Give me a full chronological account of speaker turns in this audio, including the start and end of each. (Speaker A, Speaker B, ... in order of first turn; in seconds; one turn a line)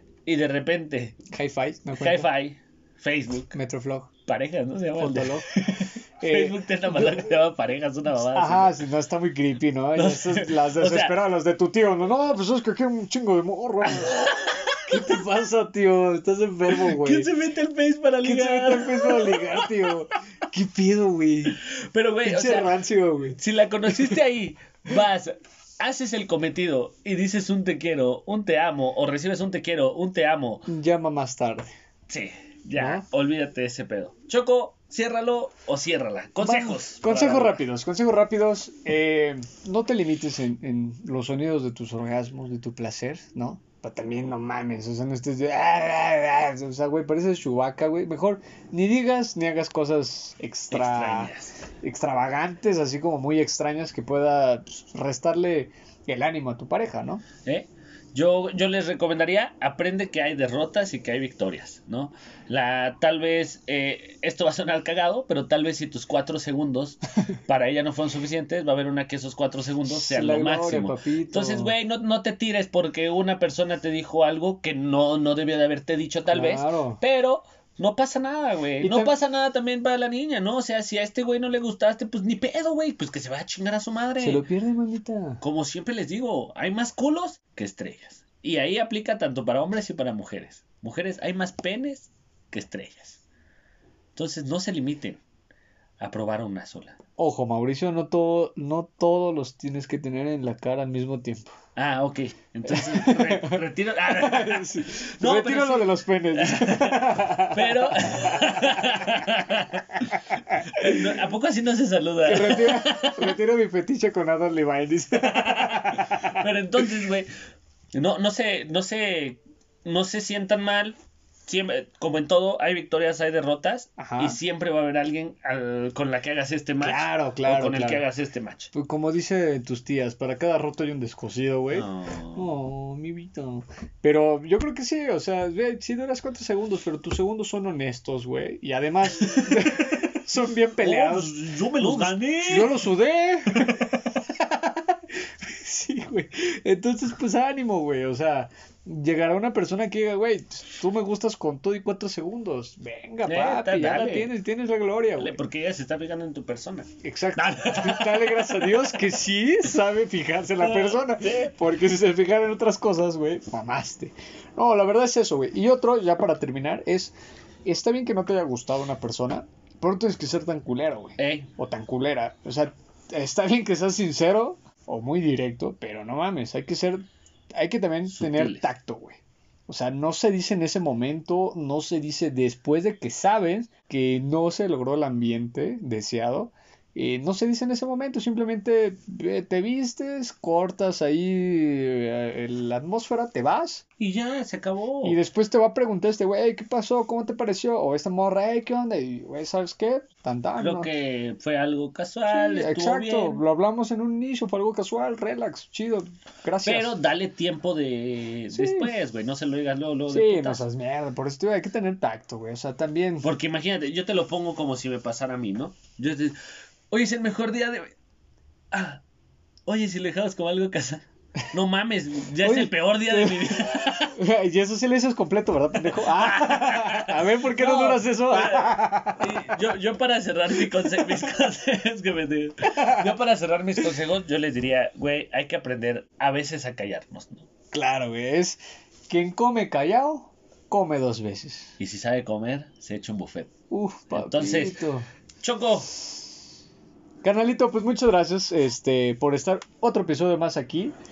Speaker A: 0.3-1.2
Speaker B: 1.3-2.3
Speaker A: 1.9-3.5
Speaker B: 3.5-4.1
Speaker A: 4.3-8.8
Speaker B: 5.0-5.5
Speaker B: 6.2-7.4
Speaker B: 8.3-14.2
Speaker A: 9.9-11.2
Speaker A: 13.8-15.0
Speaker B: 14.9-17.3
Speaker A: 16.7-19.9
Speaker B: 18.2-21.6
Speaker A: 21.5-22.7
Speaker B: 22.2-23.4
Speaker A: 23.4-30.7
Speaker B: 23.9-24.2
Speaker B: 30.7-31.7
Speaker A: 32.1-37.6
Speaker B: 32.8-33.0
Speaker B: 36.4-57.2
Speaker A: 50.7-51.5
Speaker A: 57.5-84.5
Speaker B: 69.9-71.8
Speaker B: 76.3-77.0
Speaker B: 78.8-79.1
Speaker B: 84.2-85.4
Speaker A: 85.4-93.2
Speaker A: 94.2-95.2
Speaker A: 96.0-97.0
Speaker B: 97.2-101.5
Speaker A: 101.8-113.4
Speaker B: 102.7-109.3
Speaker B: 110.3-111.2
Speaker B: 112.2-116.9
Speaker A: 115.2-117.3
Speaker A: 117.9-128.7
Speaker B: 124.0-124.4
Speaker B: 126.8-128.1
Speaker B: 128.7-155.4
Speaker A: 131.7-132.5
Speaker A: 139.1-140.0
Speaker A: 140.8-142.8
Speaker A: 153.2-154.3
Speaker A: 155.2-159.0
Speaker B: 157.0-167.1
Speaker A: 160.6-161.5
Speaker B: 167.7-177.0
Speaker A: 171.2-171.5
Speaker B: 177.5-193.8
Speaker A: 178.1-178.7
Speaker A: 194.0-195.2
Speaker B: 195.0-200.9
Speaker A: 200.6-203.4
Speaker B: 202.3-206.9
Speaker A: 206.6-210.7
Speaker B: 208.5-208.9
Speaker B: 210.1-213.3
Speaker A: 213.2-216.4
Speaker A: 216.9-217.9
Speaker A: 218.7-219.0
Speaker A: 219.7-224.2
Speaker B: 222.4-223.5
Speaker B: 224.2-229.4
Speaker A: 225.9-237.5
Speaker B: 230.7-231.1
Speaker B: 232.7-233.2
Speaker B: 237.7-241.8
Speaker A: 241.8-243.5
Speaker B: 243.7-245.1
Speaker A: 244.1-244.8
Speaker A: 245.4-246.0
Speaker B: 247.2-250.9